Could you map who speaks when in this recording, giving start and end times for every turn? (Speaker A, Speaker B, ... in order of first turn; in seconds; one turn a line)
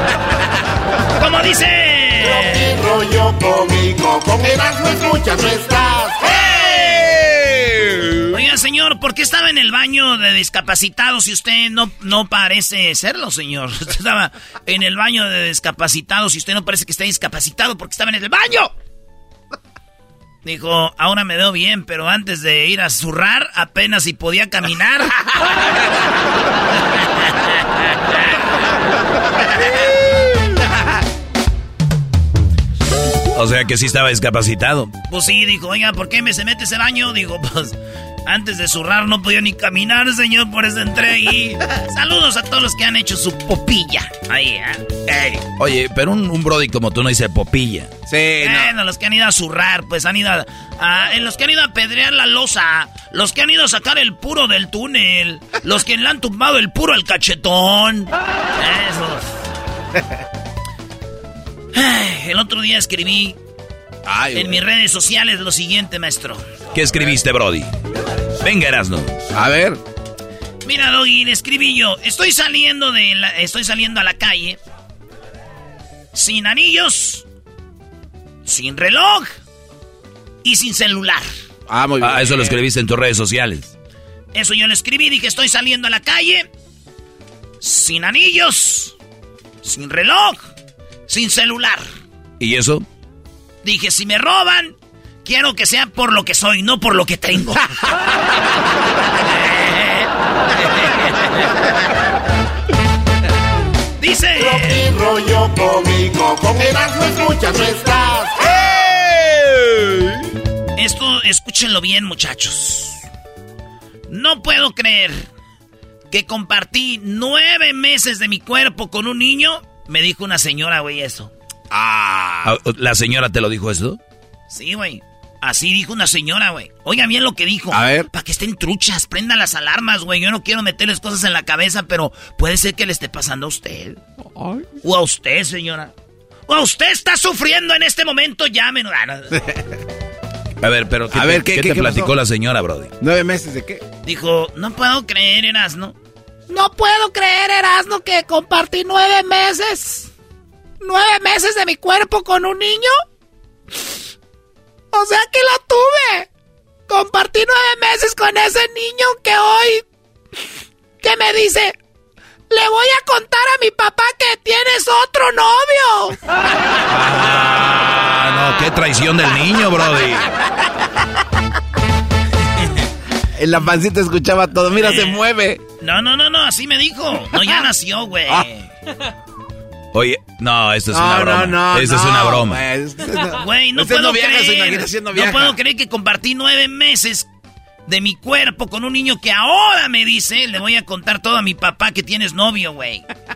Speaker A: 1.2-2.7
Speaker B: 2.2-6.4
Speaker C: 6.3-8.3
Speaker A: 8.3-18.7
Speaker A: 20.4-25.1
Speaker D: 33.3-35.0
Speaker A: 35.1-37.7
Speaker A: 38.3-45.4
Speaker D: 45.5-47.9
Speaker C: 48.1-48.7
Speaker A: 48.4-59.3
Speaker A: 61.7-63.4
Speaker C: 64.1-64.6
Speaker A: 64.3-66.4
Speaker D: 66.7-67.7
Speaker D: 68.4-69.2
Speaker C: 69.3-69.8
Speaker A: 70.6-74.6
Speaker A: 76.2-77.2
Speaker A: 78.5-79.3
Speaker A: 80.4-81.3
Speaker C: 81.7-82.6
Speaker D: 82.0-83.7
Speaker A: 84.3-86.5
Speaker A: 87.6-89.0
Speaker A: 89.6-90.4
Speaker A: 91.1-91.9
Speaker D: 92.4-92.9
Speaker A: 93.6-97.6
Speaker A: 99.3-100.1
Speaker A: 100.6-101.0
Speaker A: 104.0-104.9
Speaker B: 104.4-108.4
Speaker C: 108.5-110.0
Speaker A: 110.8-113.0
Speaker A: 114.1-115.3
Speaker A: 116.1-121.3
Speaker C: 121.7-122.5
Speaker D: 122.4-124.0
Speaker A: 124.5-134.0
Speaker C: 127.7-128.1
Speaker C: 134.3-134.7
Speaker A: 134.8-135.9
Speaker A: 136.5-139.4
Speaker D: 140.6-142.9
Speaker C: 141.1-142.1
Speaker C: 143.0-143.8
Speaker A: 144.0-145.9
Speaker E: 146.5-150.1
Speaker E: 150.8-153.0
Speaker E: 154.9-156.3
Speaker E: 156.9-159.8
Speaker E: 161.0-161.8
Speaker E: 162.5-166.2
Speaker D: 166.9-170.3
Speaker C: 173.4-175.6
Speaker A: 174.8-175.2
Speaker A: 175.8-178.7
Speaker D: 179.9-182.6
Speaker C: 180.9-185.6
Speaker A: 183.4-187.3
Speaker A: 187.9-193.1